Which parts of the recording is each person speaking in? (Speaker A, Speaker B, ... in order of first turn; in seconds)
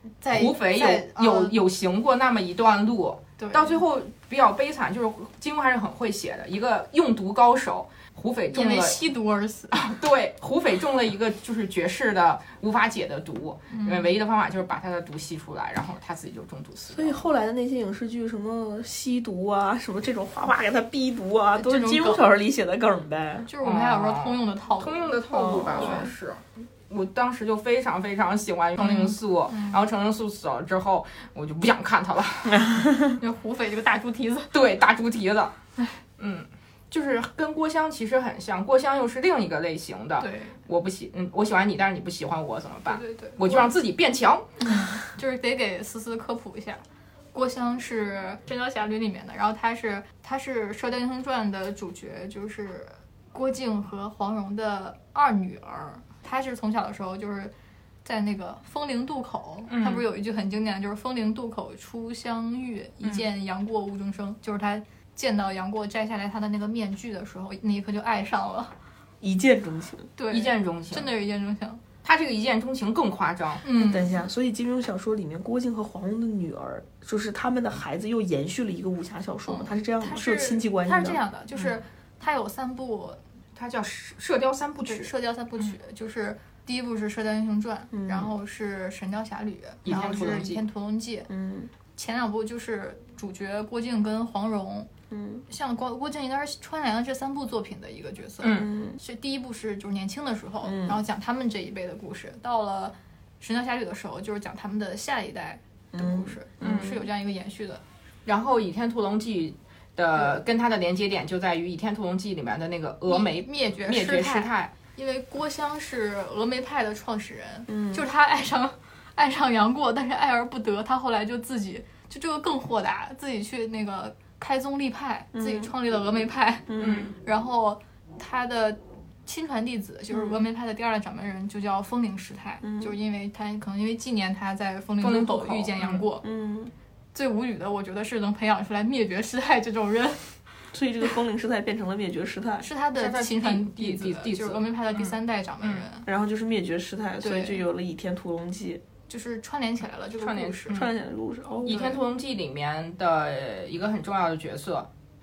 Speaker A: 0.2-1.6, 3.4-3.8, 8.5-9.8, 13.7-14.1, 21.5-22.3, 23.5-26.1, 28.8-29.8, 33.2-34.5, 40.2-40.6, 42.9-43.7, 44.6-46.8, 47.3-57.5, 58.0-68.7, 70.2-71.8, 73.6-74.2, 79.5-83.2, 84.8-91.3, 91.9-94.9, 95.5-107.8, 113.1-136.2, 137.1-140.3, 142.6-146.1, 147.2-147.6, 149.1-150.9
Speaker B: 0.3-9.0, 9.7-17.2, 23.6-32.7, 34.5-35.5, 36.2-44.6, 59.7-60.0, 70.3-71.1, 72.0-73.6, 81.5-81.8, 83.5-85.1, 89.8-90.6, 98.4-98.7, 106.6-107.0, 108.2-114.7, 126.8-127.1, 135.0-136.0, 142.9-145.8, 150.2-150.9, 151.6-154.9
Speaker C: 16.9-23.5, 25.3-26.1, 32.5-33.2, 69.2-70.1, 73.7-81.2, 87.9-88.3, 91.3-91.7, 95.1-95.4, 98.5-99.0, 100.6-101.0, 105.9-106.9, 117.7-118.0, 125.3-125.7, 126.7-127.1, 130.1-130.4, 132.6-132.9, 136.2-136.7, 140.7-142.7, 146.1-148.8, 150.7-152.0